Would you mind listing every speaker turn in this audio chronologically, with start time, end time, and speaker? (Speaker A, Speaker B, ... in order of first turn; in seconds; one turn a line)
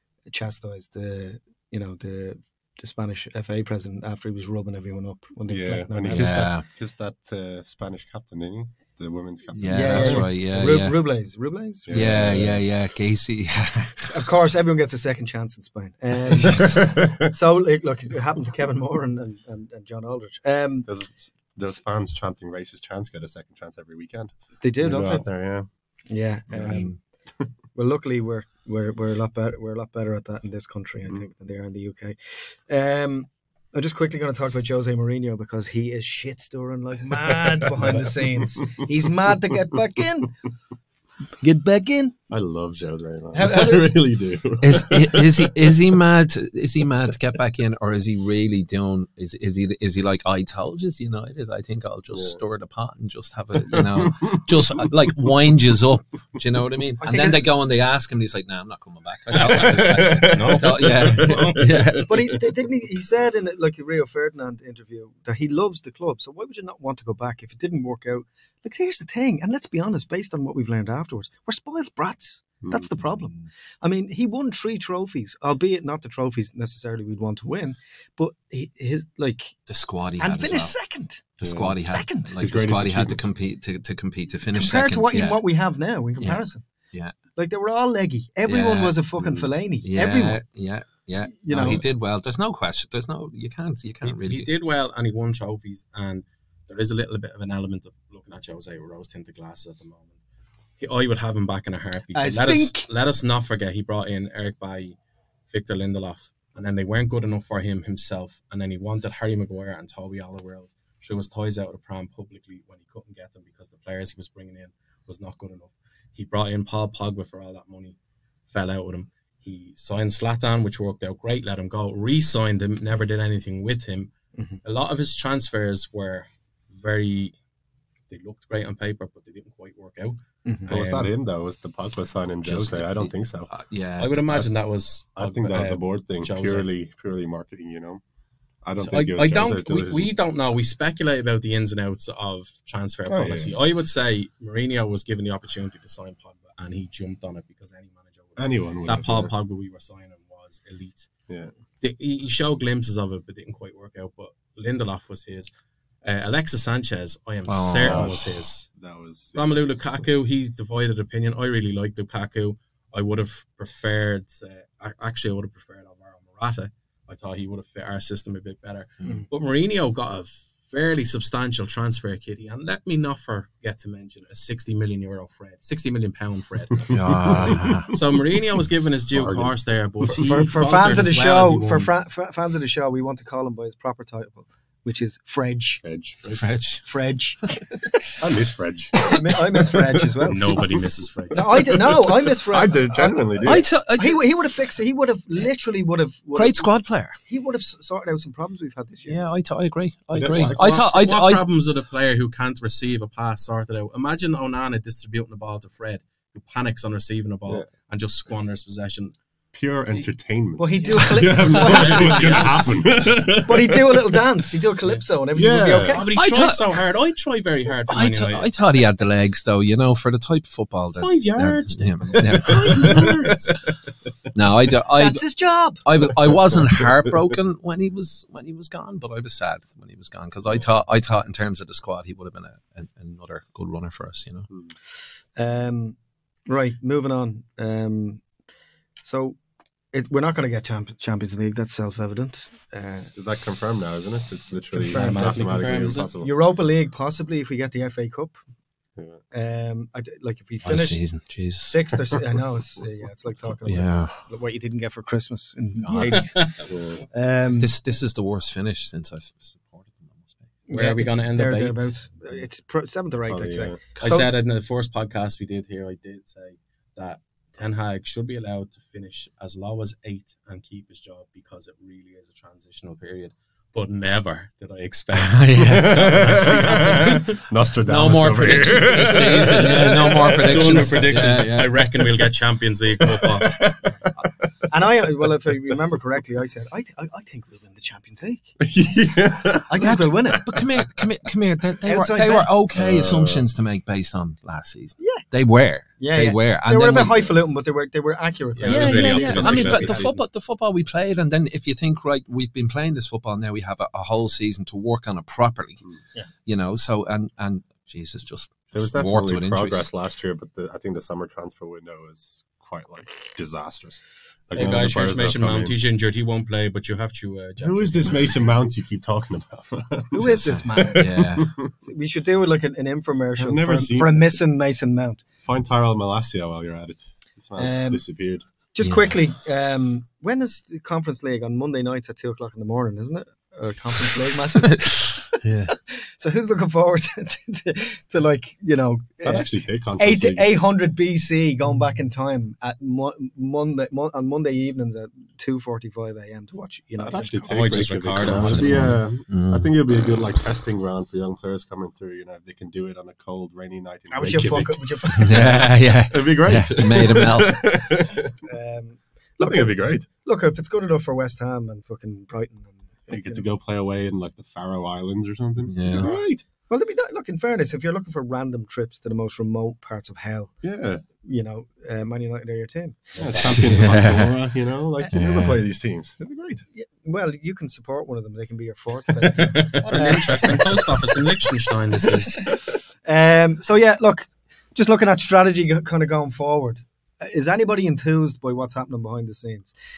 Speaker A: 0.3-6.5
Speaker B: 5.5-10.3
Speaker C: 6.1-6.7
Speaker C: 9.6-11.0
Speaker A: 9.7-12.5
Speaker B: 11.8-12.7
Speaker C: 11.9-14.1
Speaker A: 14.1-20.9
Speaker B: 16.4-17.1
Speaker B: 20.9-25.7
Speaker A: 24.6-25.3
Speaker A: 26.1-26.9
Speaker B: 26.5-26.8
Speaker C: 26.6-27.0
Speaker A: 27.7-40.4
Speaker B: 37.6-38.8
Speaker A: 41.4-42.1
Speaker B: 42.3-46.0
Speaker A: 43.3-43.9
Speaker C: 44.6-62.1
Speaker B: 52.1-52.4
Speaker B: 53.6-55.3
Speaker A: 57.0-57.4
Speaker B: 59.4-62.2
Speaker D: 59.4-61.7
Speaker A: 62.0-79.6
Speaker C: 79.7-80.7
Speaker A: 80.2-81.3
Speaker C: 81.4-85.4
Speaker B: 81.4-81.8
Speaker A: 81.8-82.4
Speaker B: 82.4-83.3
Speaker A: 84.5-86.6
Speaker C: 86.2-87.1
Speaker A: 87.3-90.4
Speaker C: 88.5-89.0
Speaker B: 89.2-89.5
Speaker C: 89.8-94.5
Speaker A: 91.3-91.8
Speaker D: 94.0-100.2
Speaker D: 100.8-105.0
Speaker A: 102.1-102.9
Speaker D: 105.5-118.0
Speaker D: 118.5-124.1
Speaker D: 124.6-127.3
Speaker D: 128.1-131.1
Speaker B: 130.7-133.5
Speaker C: 132.4-134.2
Speaker D: 134.0-136.7
Speaker B: 135.2-138.0
Speaker B: 138.6-140.1
Speaker D: 138.8-151.1
Speaker B: 143.1-143.6
Speaker B: 148.4-149.3
Speaker D: 151.8-155.5
Speaker D: 156.0-158.7
Speaker C: 157.5-158.2
Speaker B: 157.8-159.7
Speaker D: 159.3-181.9
Speaker B: 176.9-178.0
Speaker C: 176.9-177.9
Speaker B: 179.1-180.3
Speaker A: 180.1-185.8
Speaker B: 185.8-186.4
Speaker C: 186.3-186.8
Speaker A: 186.8-188.0
Speaker B: 188.2-189.2
Speaker A: 189.0-190.6
Speaker B: 190.1-190.7
Speaker D: 190.2-191.6
Speaker A: 191.3-196.7
Speaker B: 191.5-193.7
Speaker C: 193.4-194.2
Speaker C: 196.3-197.2
Speaker A: 197.2-199.2
Speaker C: 199.1-201.4
Speaker B: 200.1-200.6
Speaker D: 200.4-209.1
Speaker B: 209.5-214.2
Speaker A: 210.6-212.3
Speaker C: 210.9-212.7
Speaker D: 211.5-212.8
Speaker A: 213.4-216.1
Speaker B: 215.3-216.1
Speaker D: 215.9-218.5
Speaker C: 216.1-216.7
Speaker C: 217.9-223.3
Speaker D: 220.9-223.6
Speaker B: 222.3-223.2
Speaker C: 224.3-225.2
Speaker A: 224.9-225.8
Speaker C: 225.8-234.5
Speaker A: 235.3-235.9
Speaker A: 236.5-238.2
Speaker A: 239.0-239.4
Speaker A: 239.9-243.1
Speaker B: 243.1-246.3
Speaker A: 244.6-248.3
Speaker D: 244.9-246.1
Speaker B: 248.9-249.2
Speaker A: 249.3-251.0
Speaker C: 250.6-251.8
Speaker A: 251.6-257.7
Speaker C: 253.6-254.1
Speaker C: 255.8-256.4
Speaker D: 256.1-256.6
Speaker B: 256.7-257.0
Speaker C: 257.6-260.5
Speaker A: 260.7-264.3
Speaker D: 260.7-261.9
Speaker B: 263.3-263.8
Speaker D: 264.0-277.4
Speaker C: 275.2-276.4
Speaker B: 275.6-280.9
Speaker C: 277.8-281.8
Speaker D: 278.4-283.6
Speaker B: 283.0-284.1
Speaker A: 284.7-288.5
Speaker B: 288.6-290.6
Speaker A: 289.7-290.5
Speaker C: 289.8-297.3
Speaker A: 291.8-292.5
Speaker B: 292.7-293.4
Speaker A: 295.0-295.2
Speaker A: 296.0-300.1
Speaker D: 298.6-300.2
Speaker C: 298.6-305.8
Speaker C: 306.4-309.9
Speaker B: 308.7-315.8
Speaker D: 314.5-318.4
Speaker B: 317.6-321.7
Speaker A: 320.1-321.2
Speaker C: 320.9-321.5
Speaker A: 321.8-325.2
Speaker B: 323.4-324.4
Speaker B: 325.4-328.4
Speaker A: 327.6-328.0
Speaker A: 328.7-339.4
Speaker C: 328.8-329.1
Speaker C: 335.4-335.7
Speaker B: 339.2-340.5
Speaker A: 340.0-347.8
Speaker B: 347.0-358.4
Speaker D: 347.5-348.9
Speaker C: 348.1-349.7
Speaker A: 354.1-355.6
Speaker C: 355.1-357.6
Speaker A: 358.4-363.5
Speaker B: 359.4-360.1
Speaker B: 363.1-366.4
Speaker C: 365.6-366.1
Speaker A: 366.0-370.5
Speaker B: 370.6-371.0
Speaker A: 371.2-373.7
Speaker B: 373.1-376.6
Speaker D: 373.4-374.1
Speaker C: 373.6-374.3
Speaker C: 375.1-375.6
Speaker A: 376.7-380.8
Speaker B: 379.6-381.1
Speaker D: 379.7-382.5
Speaker A: 383.0-389.7